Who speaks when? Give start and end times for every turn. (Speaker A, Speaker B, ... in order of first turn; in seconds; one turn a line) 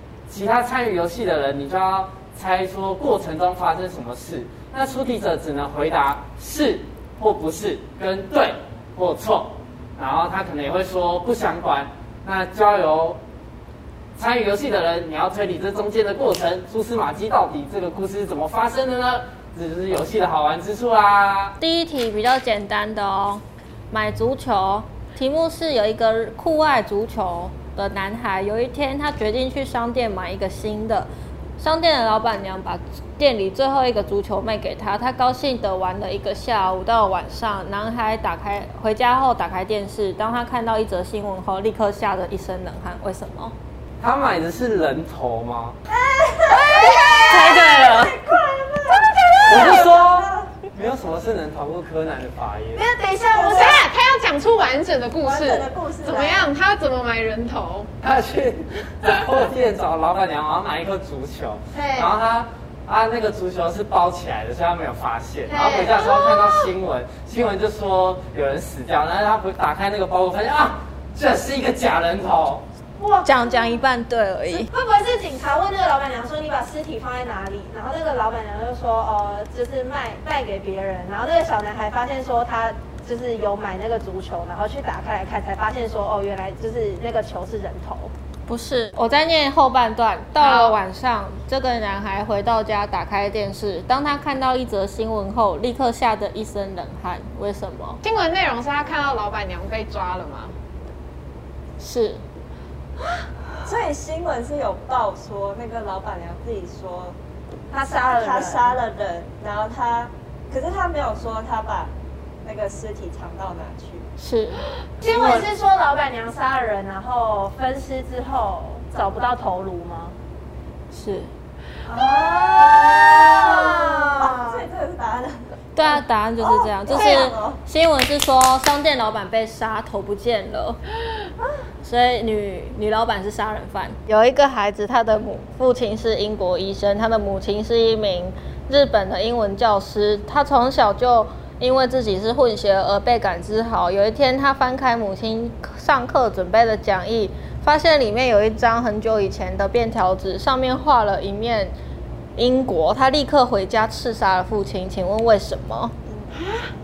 Speaker A: 0.3-13.2
Speaker A: 14.2-21.6
Speaker B: 21.6-31.1
Speaker B: 31.6-43.5
Speaker A: 44.0-45.8
Speaker C: 45.9-47.6
Speaker D: 46.6-50.5
Speaker B: 46.8-48.1
Speaker C: 48.9-50.0
Speaker A: 49.5-52.9
Speaker C: 52.7-53.9
Speaker E: 53.3-57.9
Speaker D: 55.2-56.5
Speaker A: 58.0-72.6
Speaker C: 61.7-62.2
Speaker C: 65.5-66.7
Speaker C: 73.0-73.8
Speaker B: 73.2-74.7
Speaker C: 74.5-88.1
Speaker B: 88.5-98.0
Speaker E: 90.4-90.8
Speaker E: 98.0-100.5
Speaker B: 101.8-102.2
Speaker D: 103.6-107.2
Speaker C: 107.7-108.8
Speaker D: 108.0-114.1
Speaker B: 114.2-115.5
Speaker C: 115.0-120.2
Speaker B: 120.9-121.3
Speaker D: 121.9-127.6
Speaker C: 121.9-124.7
Speaker B: 125.8-130.8
Speaker E: 127.0-127.2
Speaker B: 131.8-151.7
Speaker B: 152.4-155.9
Speaker D: 156.1-156.5